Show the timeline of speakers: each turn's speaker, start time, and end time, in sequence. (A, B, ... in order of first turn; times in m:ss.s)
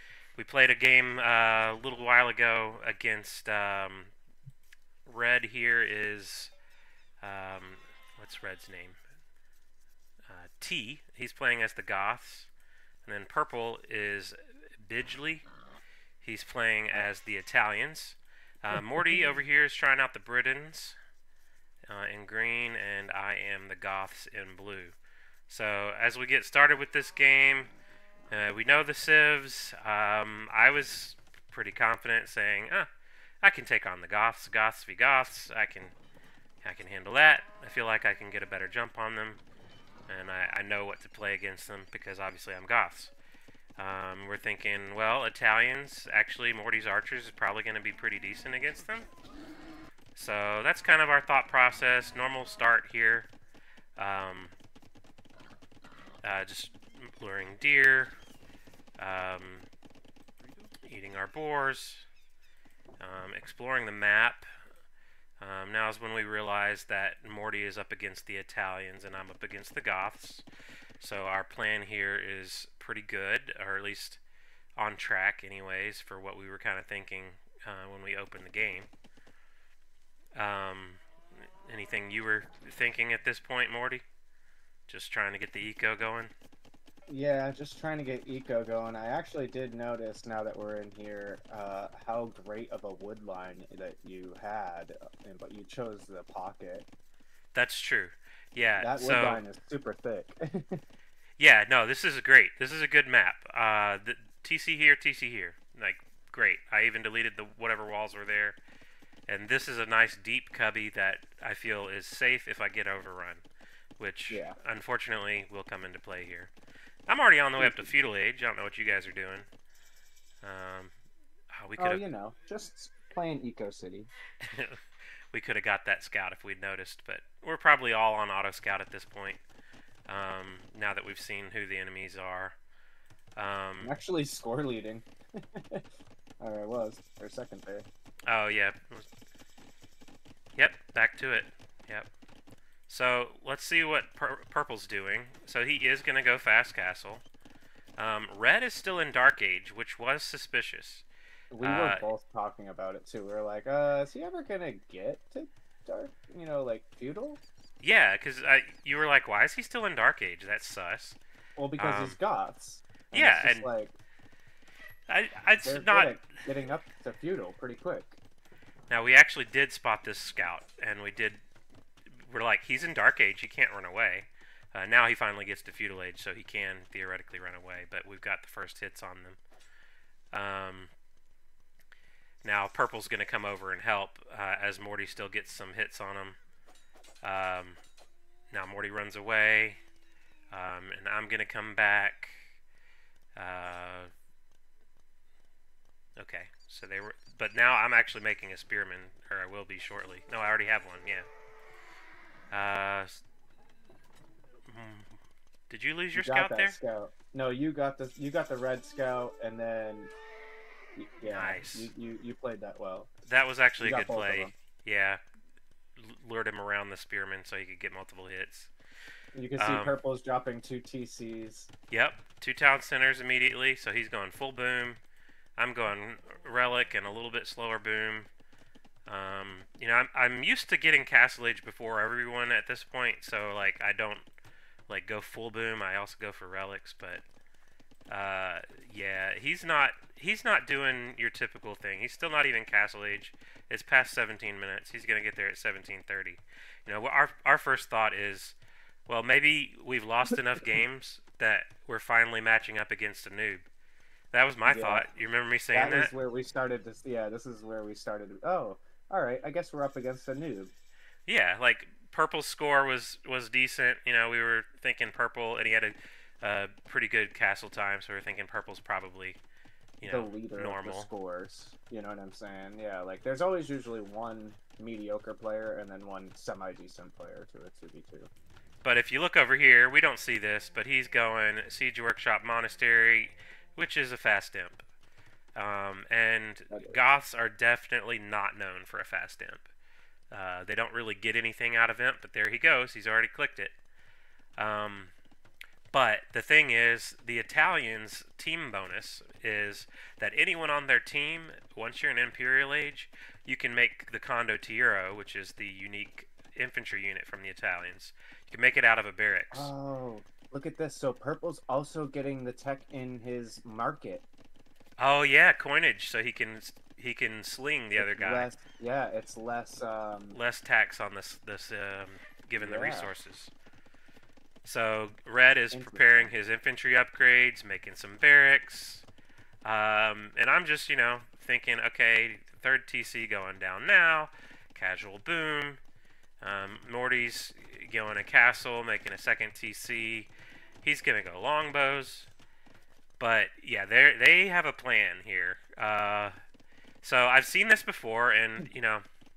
0:00.4-0:04.1 A
0:05.0-0:06.5 A
0:07.2-0:09.0 A
0:10.3-0:12.5 A
0:13.0-0:15.4 A
0:16.2-0:21.0 A
0:21.9-0:25.0 A
0:25.5-0:27.7 A
0:28.3-0:32.9 A
0:33.4-0:35.9 A
0:36.6-0:39.4 A
0:40.1-0:43.1 A
0:43.8-0:49.1 A
0:50.1-0:53.3 A
0:54.0-0:54.5 A
0:56.2-0:58.1 A
0:59.0-0:59.7 A
1:00.8-1:02.0 A
1:03.0-1:04.4 A
1:05.4-1:10.4 A
1:11.0-1:14.2 A
1:14.8-1:18.9 A
1:20.3-1:21.0 A
1:21.6-1:24.0 A
1:24.9-1:26.3 A
1:27.1-1:36.9 B
1:37.5-1:39.4 A
1:38.8-1:40.8 B
1:41.4-1:48.6 A
1:49.3-1:53.4 A
1:54.0-1:56.5 A
1:54.3-1:54.6 B
1:57.1-1:59.5 A
1:57.6-1:57.9 B
2:00.4-2:00.9 A
2:01.5-2:02.0 A
2:01.8-2:04.1 B
2:04.5-2:04.8 A
2:05.3-2:09.4 A
2:10.1-2:12.6 A
2:13.4-2:13.9 A
2:13.8-2:15.8 B
2:16.4-2:17.8 B
2:18.3-2:19.1 A
2:20.5-2:22.1 A
2:22.9-2:27.2 A
2:28.0-2:31.0 A
2:31.5-2:37.4 B
2:31.6-2:32.1 A
2:37.8-2:41.2 A
2:41.6-2:43.9 B
2:41.8-2:42.2 A
2:43.1-2:43.7 A
2:45.1-2:46.1 A
2:45.6-2:48.2 B
2:48.9-2:51.4 A
2:52.1-2:59.4 A
3:00.3-3:00.9 A
3:02.4-3:06.4 A
3:07.2-3:07.8 A
3:08.5-3:09.8 A
3:10.5-3:12.4 A
3:13.4-3:14.1 A
3:16.2-3:21.3 A
3:22.5-3:23.2 A
3:24.7-3:25.2 A
3:25.7-3:26.8 A
3:26.1-3:30.1 B
3:31.0-3:33.1 B
3:31.3-3:31.9 A
3:33.3-3:35.2 A
3:33.8-3:34.5 B
3:36.0-3:38.7 A
3:39.3-3:41.7 B
3:39.6-3:39.9 A
3:41.9-3:45.0 A
3:45.6-3:48.3 A
3:49.1-3:54.2 A
3:54.9-3:57.2 A
3:58.1-4:08.6 A
4:09.1-4:13.6 A
4:14.3-4:16.1 A
4:14.7-4:15.0 B
4:15.7-4:20.7 B
4:21.2-4:29.4 A
4:30.0-4:31.1 A
4:30.0-4:38.3 B
4:38.8-4:44.8 A
4:45.6-4:49.6 A
4:46.7-4:47.0 B
4:50.3-4:53.7 A
4:54.6-4:55.1 A
4:55.9-5:09.7 A
5:09.5-5:14.2 B
5:15.0-5:18.5 A
5:18.0-5:20.4 B
5:20.3-5:23.5 A
5:22.6-5:23.1 B
5:24.6-5:29.0 A
5:25.7-5:26.3 B
5:29.6-5:35.8 A
5:36.4-5:40.3 A
5:40.8-5:42.3 A
5:43.2-5:46.4 A
5:47.0-5:49.0 A